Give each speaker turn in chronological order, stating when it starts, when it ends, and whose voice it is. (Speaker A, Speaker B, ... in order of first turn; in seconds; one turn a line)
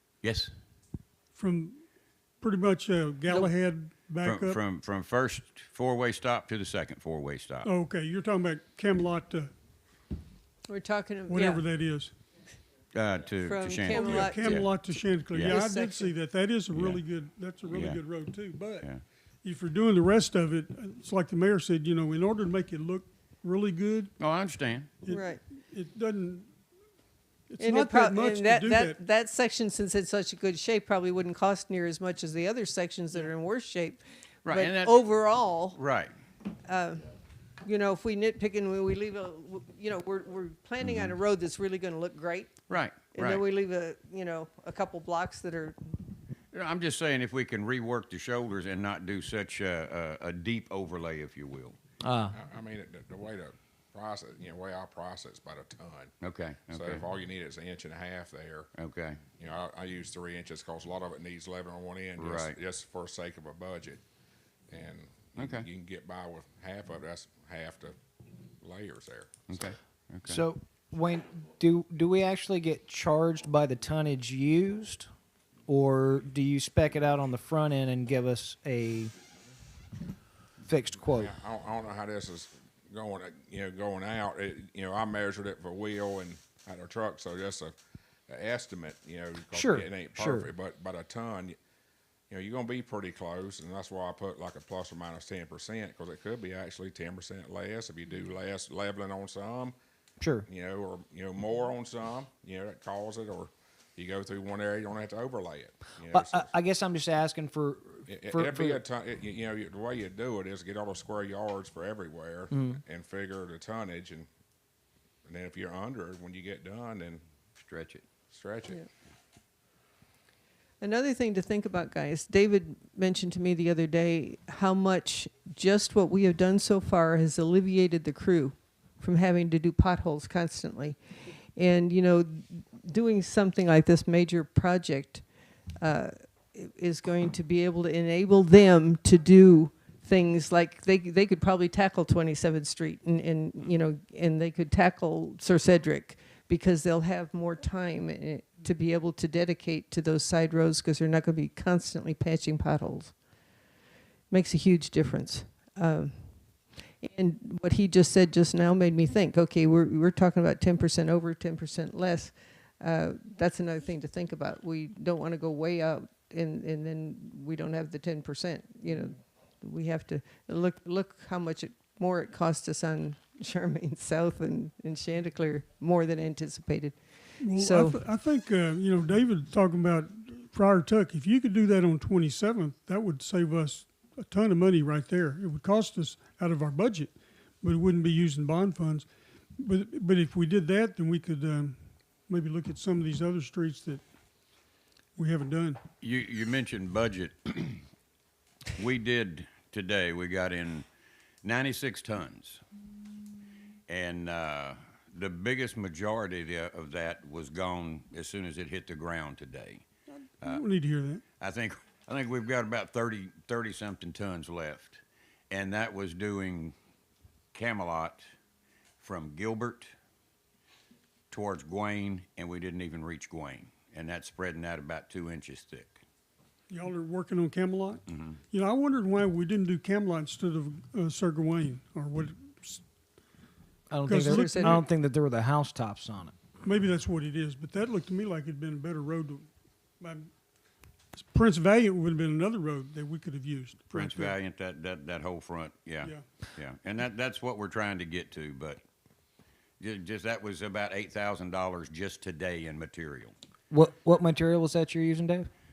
Speaker A: 0.2-0.5
Speaker B: 1.3-1.8
Speaker B: 2.4-4.6
Speaker A: 4.2-7.7
Speaker B: 7.6-9.5
Speaker C: 10.7-11.6
Speaker B: 11.3-12.1
Speaker A: 12.9-14.7
Speaker C: 13.4-14.6
Speaker B: 13.8-18.9
Speaker A: 15.3-15.6
Speaker C: 15.4-16.1
Speaker A: 16.7-17.0
Speaker A: 17.7-18.0
Speaker B: 19.4-24.1
Speaker A: 24.2-24.9
Speaker B: 25.0-26.5
Speaker C: 25.1-25.4
Speaker B: 27.5-29.0
Speaker C: 27.6-35.8
Speaker A: 34.4-35.0
Speaker A: 35.7-36.1
Speaker C: 36.6-37.1
Speaker C: 37.6-42.6
Speaker A: 40.8-41.1
Speaker A: 42.7-43.4
Speaker C: 43.1-45.8
Speaker A: 46.5-51.8
Speaker D: 52.0-52.4
Speaker E: 52.3-56.1
Speaker A: 56.2-57.0
Speaker E: 56.7-58.7
Speaker A: 58.7-59.2
Speaker E: 59.4-64.0
Speaker A: 62.2-62.6
Speaker E: 64.7-68.0
Speaker A: 65.3-65.7
Speaker E: 68.6-69.4
Speaker A: 69.5-70.4
Speaker D: 70.3-75.1
Speaker D: 75.7-79.1
Speaker D: 80.6-81.3
Speaker E: 81.1-87.7
Speaker E: 88.3-91.5
Speaker D: 89.5-90.5
Speaker E: 92.3-99.7
Speaker D: 100.2-100.5
Speaker E: 100.5-106.5
Speaker D: 106.1-108.8
Speaker E: 108.1-114.3
Speaker D: 112.5-112.8
Speaker E: 115.2-117.2
Speaker A: 117.6-118.0
Speaker E: 118.3-118.8
Speaker C: 120.8-130.9
Speaker C: 131.6-135.2
Speaker C: 135.8-153.1
Speaker C: 154.3-156.2
Speaker C: 157.0-176.9
Speaker B: 177.4-194.0
Speaker C: 177.5-178.0
Speaker B: 195.2-195.8
Speaker A: 196.0-197.8
Speaker A: 198.8-200.8
Speaker A: 201.4-202.6
Speaker A: 203.9-209.8
Speaker B: 210.4-211.2
Speaker A: 211.4-216.7
Speaker A: 217.5-218.2
Speaker A: 219.0-219.9
Speaker A: 221.3-226.0
Speaker B: 226.7-232.8
Speaker A: 228.1-228.4
Speaker D: 233.9-236.3
Speaker B: 234.0-234.9
Speaker C: 234.2-234.8
Speaker B: 236.6-240.3
Speaker B: 241.2-244.4
Speaker A: 243.9-248.8
Speaker A: 249.8-253.3
Speaker D: 253.7-255.5